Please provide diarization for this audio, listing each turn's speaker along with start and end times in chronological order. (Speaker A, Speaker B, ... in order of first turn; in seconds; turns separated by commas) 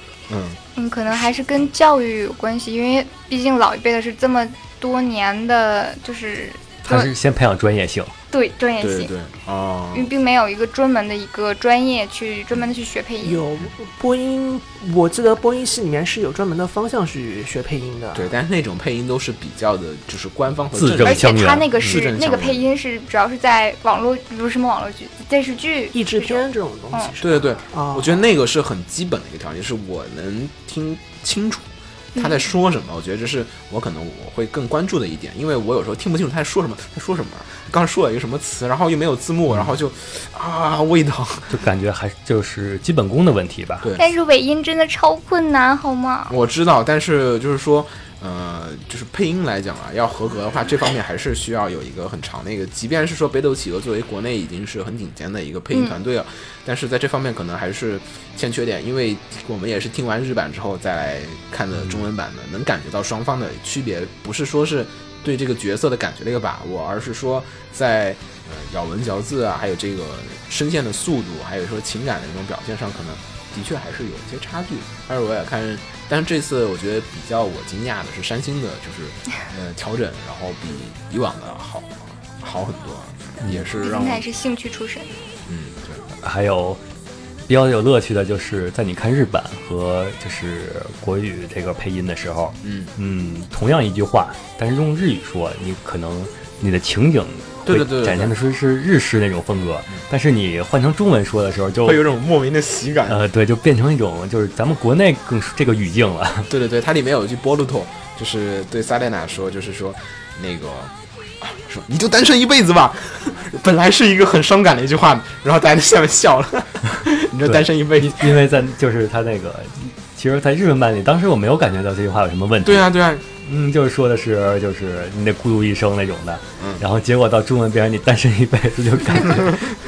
Speaker A: 0.3-0.6, Speaker B: 0.8-7.1, Speaker C: 6.8-8.1, Speaker B: 8.3-9.1, Speaker A: 8.8-10.1, Speaker B: 9.9-13.4, Speaker D: 13.2-18.3, Speaker A: 18.1-22.6, Speaker C: 20.7-22.0, Speaker B: 21.0-26.4, Speaker D: 25.9-28.2, Speaker A: 27.2-41.6, Speaker B: 32.1-32.5, Speaker C: 41.5-43.9, Speaker A: 43.8-44.1, Speaker B: 44.0-46.3, Speaker A: 46.3-84.2, Speaker B: 55.7-56.0, Speaker B: 83.8-85.1, Speaker A: 85.5-86.0, Speaker C: 86.2-86.8, Speaker C: 87.5-102.0, Speaker A: 92.6-92.9, Speaker A: 97.7-98.3, Speaker A: 101.8-103.2, Speaker C: 103.1-106.5, Speaker A: 106.5-118.4, Speaker C: 117.5-129.6, Speaker A: 122.6-123.2